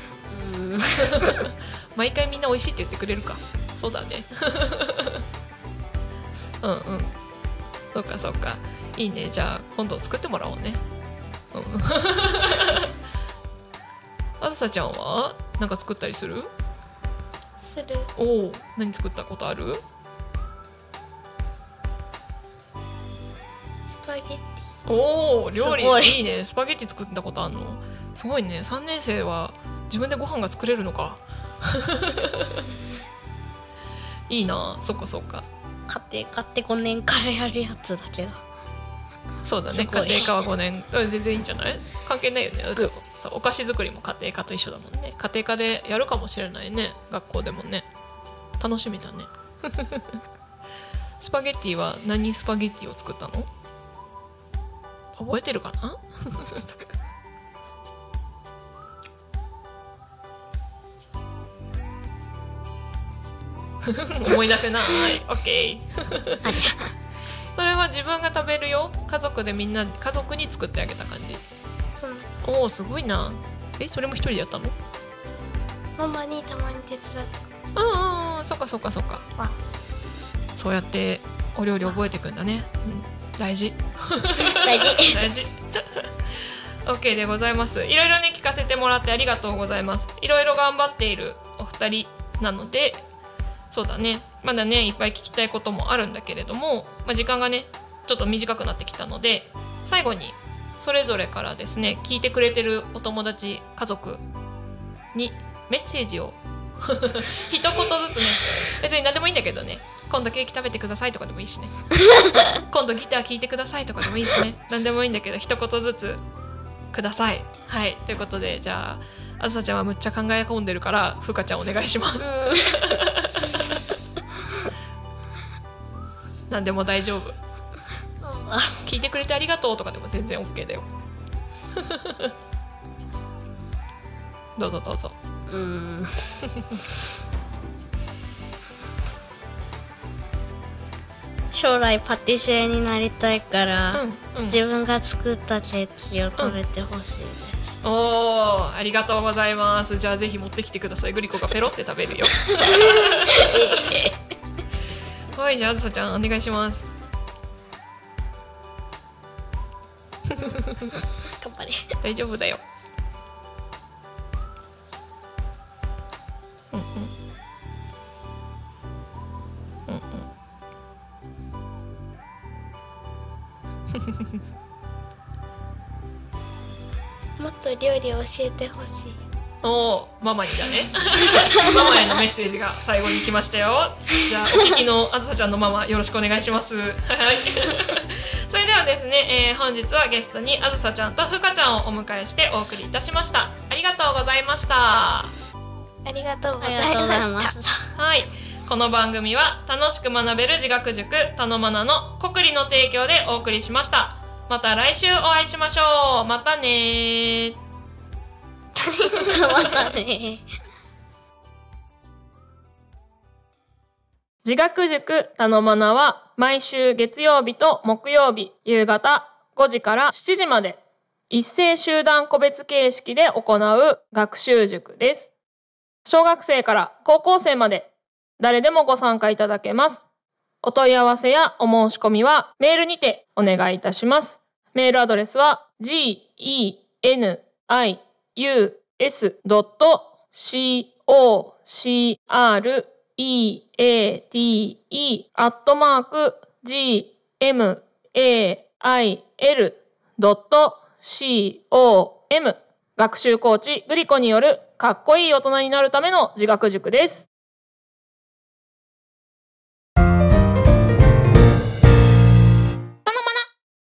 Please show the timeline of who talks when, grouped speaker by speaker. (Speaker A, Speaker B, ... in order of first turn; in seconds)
Speaker A: 0.3-1.4, 25.5-26.2, 35.9-38.4, 39.7-40.4, 66.4-66.9, 84.6-85.2, 122.2-123.0, 128.2-128.8, 135.5-136.3, 141.5-147.8, 152.7-154.2, 161.4-161.8, 196.6-197.9, 208.7-210.4
Speaker B: 1.0-5.2, 6.6-7.1, 7.9-10.8, 11.5-12.9, 14.4-16.5, 18.1-19.8, 24.9-32.6, 34.3-35.5, 39.4-47.9, 48.6-50.1, 51.2-53.5, 55.2-56.6, 63.8-66.6, 67.5-71.4, 72.4-74.7, 77.7-79.2, 80.5-86.1, 86.8-93.0, 93.7-104.2, 105.1-111.9, 112.5-116.2, 116.9-123.6, 126.5-127.3, 128.8-130.9, 131.8-132.3, 134.6-135.1, 143.9-144.6, 147.8-153.4, 155.3-156.9, 160.3-160.8, 162.0-162.6, 166.7-167.1, 169.9-170.3, 179.6-195.3, 197.9-207.6, 214.4-220.8, 221.3-225.3, 226.0-227.9, 228.4-230.0, 230.6-257.3
Speaker C: 17.6-18.1, 23.9-24.7, 72.0-72.3, 76.0-77.4, 177.4-179.2, 196.0-197.5